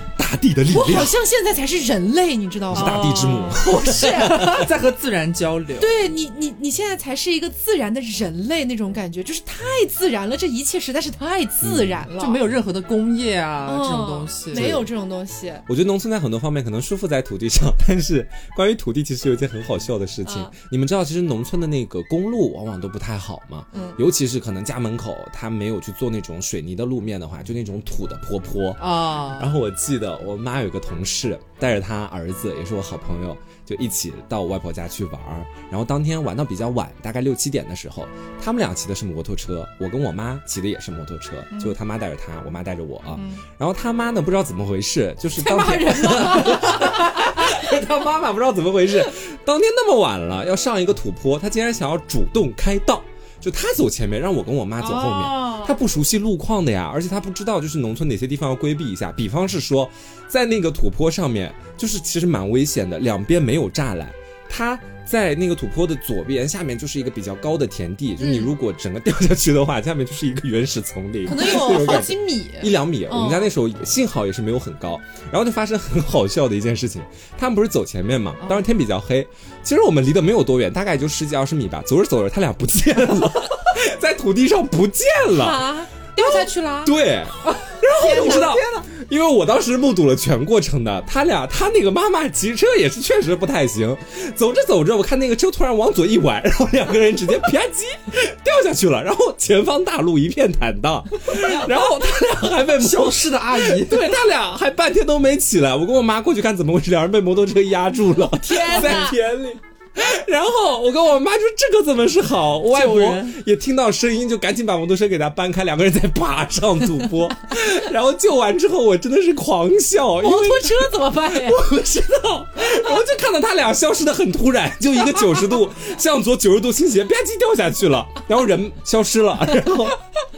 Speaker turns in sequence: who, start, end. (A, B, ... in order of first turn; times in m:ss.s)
0:00.2-0:01.1 A
0:00.7-0:04.5 B
0:02.7-0:04.5 A
0:02.7-0:05.9 C
0:05.8-0:12.4 B
0:11.6-0:12.0 A
0:12.2-0:14.7 C
0:13.6-0:15.6 B
0:14.5-0:14.9 A
0:15.7-1:25.6 A
0:20.2-0:20.5 B
0:23.7-0:24.0 B
0:28.8-0:29.5 C
0:43.2-0:43.4 C
0:45.4-0:47.0 B
0:54.8-0:55.7 C
1:08.2-1:08.5 B
1:11.2-1:13.5 B
1:25.3-1:26.9 B
1:26.8-2:10.0 A
1:27.4-1:28.9 C
1:28.0-1:28.6 B
1:42.7-1:44.1 C
1:48.2-1:49.2 B
1:48.7-1:49.0 C
1:52.7-1:53.4 C
2:00.2-2:01.6 B